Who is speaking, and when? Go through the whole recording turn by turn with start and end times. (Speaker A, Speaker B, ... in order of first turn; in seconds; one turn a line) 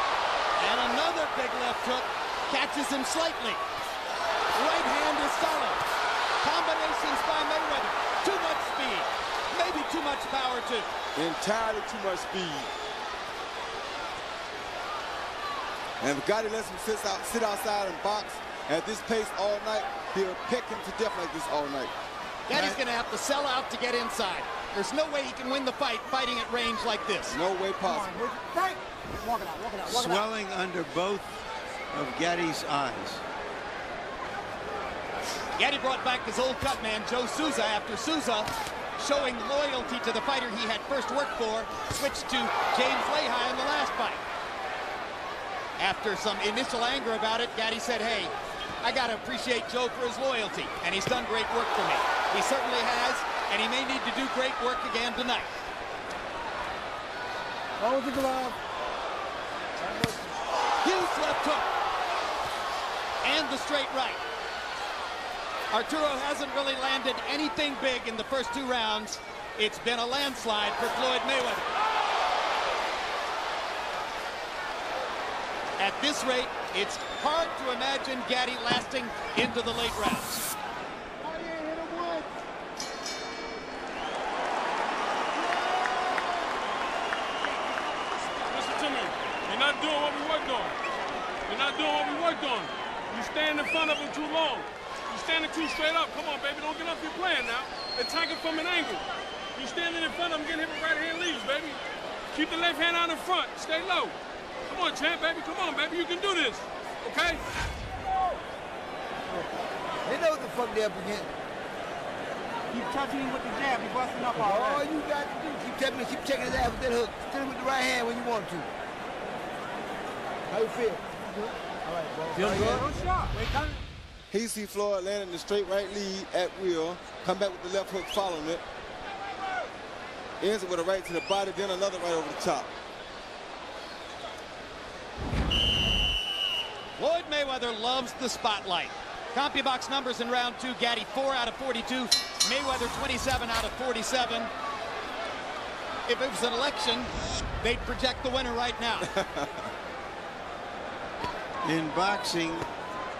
Speaker A: 0.6-3.6
Speaker A: 4.5-5.8
Speaker A: 6.4-10.9
Speaker B: 11.2-12.7
Speaker B: 16.0-21.9
Speaker A: 22.5-27.4
Speaker C: 22.5-22.8
Speaker B: 27.3-28.1
Speaker D: 27.8-30.3
Speaker C: 29.9-31.4
Speaker C: 31.9-33.2
Speaker A: 35.6-44.2
Speaker A: 45.8-55.5
Speaker E: 57.8-58.6
Speaker E: 59.8-60.4
Speaker A: 60.8-61.7
Speaker A: 63.2-64.2
Speaker A: 65.7-71.7
Speaker A: 75.8-80.4
Speaker D: 81.2-82.3
Speaker F: 88.5-90.8
Speaker F: 91.5-99.0
Speaker F: 99.5-101.8
Speaker F: 102.3-104.2
Speaker F: 104.7-107.4
Speaker E: 110.0-111.3
Speaker D: 112.7-114.8
Speaker E: 114.3-118.7
Speaker E: 120.5-121.1
Speaker E: 121.8-123.0
Speaker D: 122.3-123.8
Speaker B: 124.3-128.6
Speaker B: 130.4-132.7
Speaker A: 137.0-144.5
Speaker A: 146.1-149.1
Speaker B: 149.1-149.7
Speaker C: 151.6-152.7